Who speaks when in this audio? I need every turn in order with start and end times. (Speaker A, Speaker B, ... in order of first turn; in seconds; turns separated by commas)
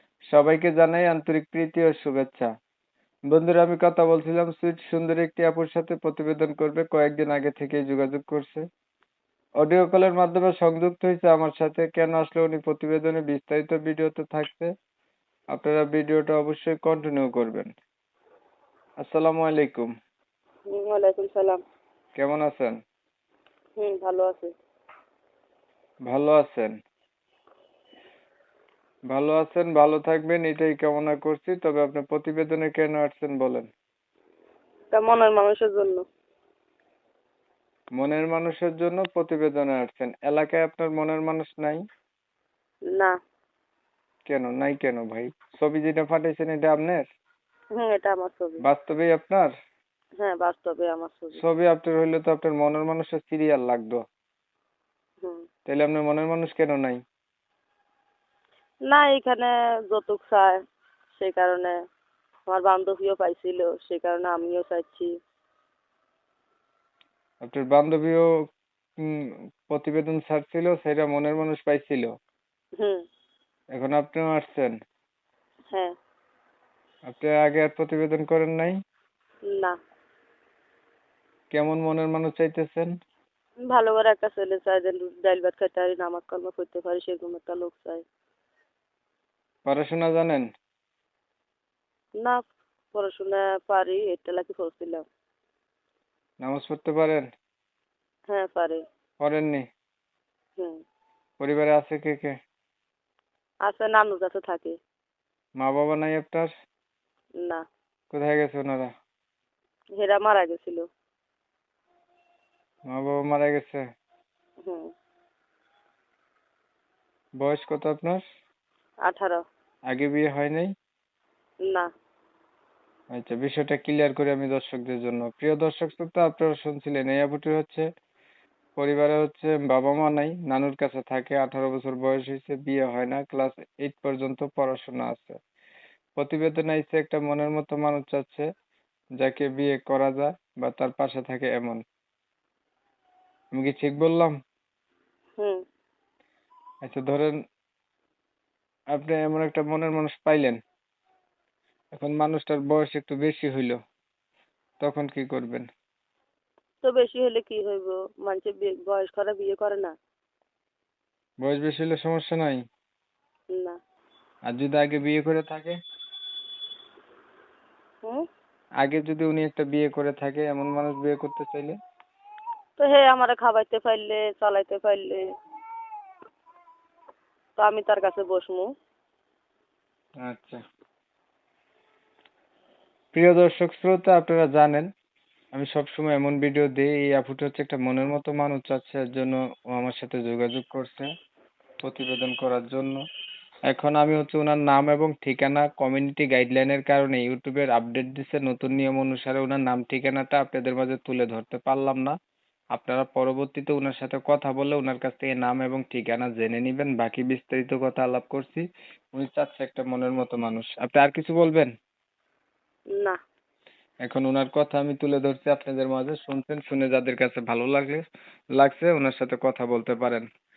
Speaker A: 0.3-2.5, Speaker A: 3.3-8.7, Speaker A: 9.6-14.7, Speaker A: 15.5-17.7, Speaker A: 19.0-19.9, Speaker B: 20.7-21.6, Speaker A: 22.2-22.8, Speaker B: 23.8-24.5, Speaker A: 26.1-26.7, Speaker A: 29.1-33.7, Speaker B: 34.9-36.0, Speaker A: 38.0-41.8, Speaker A: 44.3-47.1, Speaker B: 47.8-48.6, Speaker A: 48.6-49.5, Speaker B: 50.2-51.4, Speaker A: 51.4-54.0, Speaker A: 55.7-57.0, Speaker B: 58.9-60.6, Speaker B: 61.2-61.8, Speaker B: 62.5-65.1, Speaker A: 67.4-68.3, Speaker A: 69.0-72.1, Speaker B: 72.8-73.0, Speaker A: 73.7-74.8, Speaker A: 77.1-78.8, Speaker B: 79.5-79.8, Speaker A: 81.5-82.9, Speaker B: 83.7-88.0, Speaker A: 89.7-90.5, Speaker B: 92.9-95.0, Speaker A: 96.4-97.3, Speaker B: 98.3-98.8, Speaker A: 99.2-99.7, Speaker A: 101.4-102.4, Speaker B: 103.7-104.8, Speaker A: 105.6-106.5, Speaker A: 108.1-108.9, Speaker B: 110.0-110.9, Speaker A: 112.9-113.8, Speaker B: 114.6-114.9, Speaker A: 117.4-118.2, Speaker B: 119.1-119.4, Speaker A: 119.9-120.7, Speaker A: 123.1-127.9, Speaker A: 128.8-135.4, Speaker A: 136.2-138.5, Speaker A: 139.2-141.8, Speaker A: 143.6-144.4, Speaker A: 146.8-147.4, Speaker A: 148.9-150.6, Speaker A: 151.9-153.8, Speaker A: 154.8-155.7, Speaker B: 156.8-159.9, Speaker A: 161.4-162.6, Speaker B: 163.5-163.8, Speaker A: 164.5-165.8, Speaker A: 168.8-171.8, Speaker B: 172.8-175.3, Speaker B: 177.6-178.7, Speaker A: 180.2-180.6, Speaker A: 183.1-184.9, Speaker A: 185.5-191.1, Speaker A: 191.8-193.0, Speaker A: 193.7-202.2, Speaker A: 202.8-211.7, Speaker A: 214.1-218.1, Speaker A: 218.6-220.3